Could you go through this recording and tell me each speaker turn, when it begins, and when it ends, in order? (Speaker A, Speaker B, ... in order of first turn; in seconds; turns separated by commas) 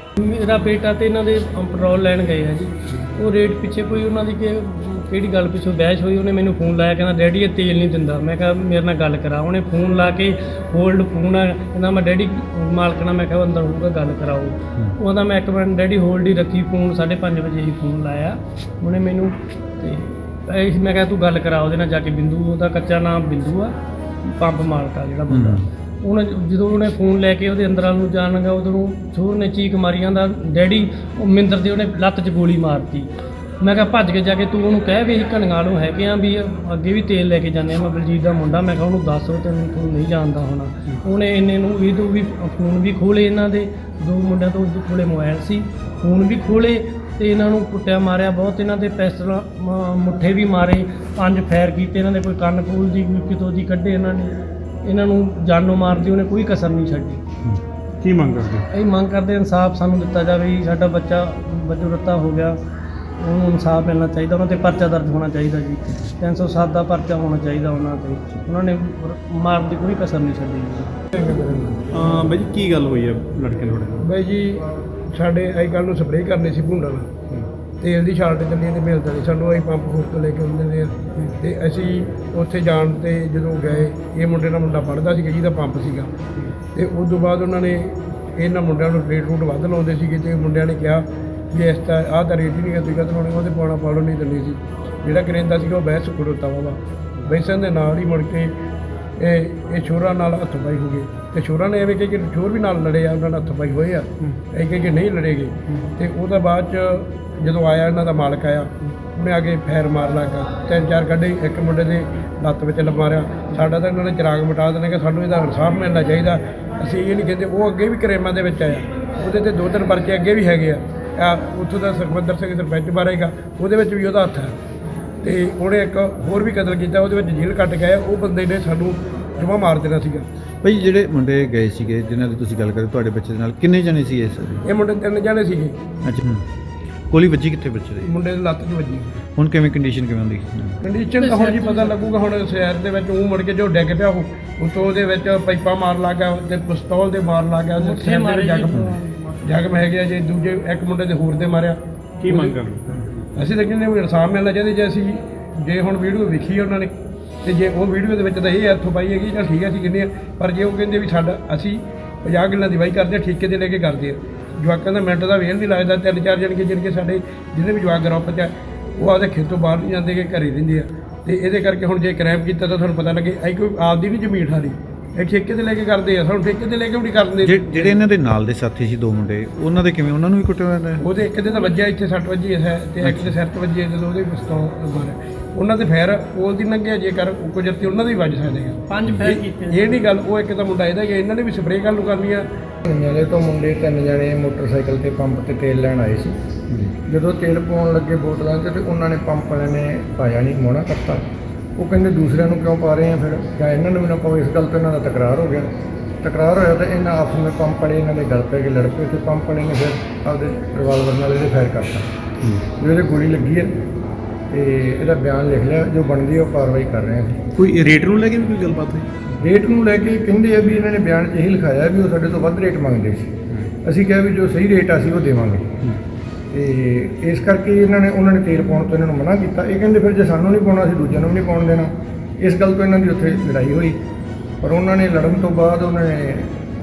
Speaker A: 0.2-23.7, Speaker A: 24.2-57.2, Speaker B: 25.3-25.6, Speaker C: 58.0-58.6, Speaker A: 58.7-62.6, Speaker A: 63.2-71.0, Speaker D: 71.1-71.8, Speaker C: 71.9-74.1, Speaker D: 74.0-77.1, Speaker D: 77.8-86.1, Speaker D: 86.7-98.5, Speaker D: 99.2-124.5, Speaker D: 125.2-130.2, Speaker B: 130.6-134.6, Speaker D: 134.6-135.8, Speaker B: 136.0-136.4, Speaker B: 137.1-138.1, Speaker D: 138.0-139.2, Speaker B: 139.4-140.8, Speaker D: 140.8-148.7, Speaker A: 141.2-142.2, Speaker A: 147.8-149.6, Speaker D: 149.4-151.8, Speaker C: 152.2-153.3, Speaker D: 152.3-152.6, Speaker D: 153.3-156.9, Speaker D: 157.4-178.0, Speaker B: 177.4-181.0, Speaker D: 181.0-192.4, Speaker B: 183.0-183.3, Speaker A: 188.9-190.0, Speaker E: 192.8-196.3, Speaker E: 197.1-201.2, Speaker E: 201.8-205.7, Speaker E: 206.2-212.1, Speaker E: 212.8-213.7, Speaker E: 214.5-217.4, Speaker C: 217.6-219.1, Speaker E: 219.4-225.8, Speaker E: 226.5-234.0, Speaker E: 234.6-236.5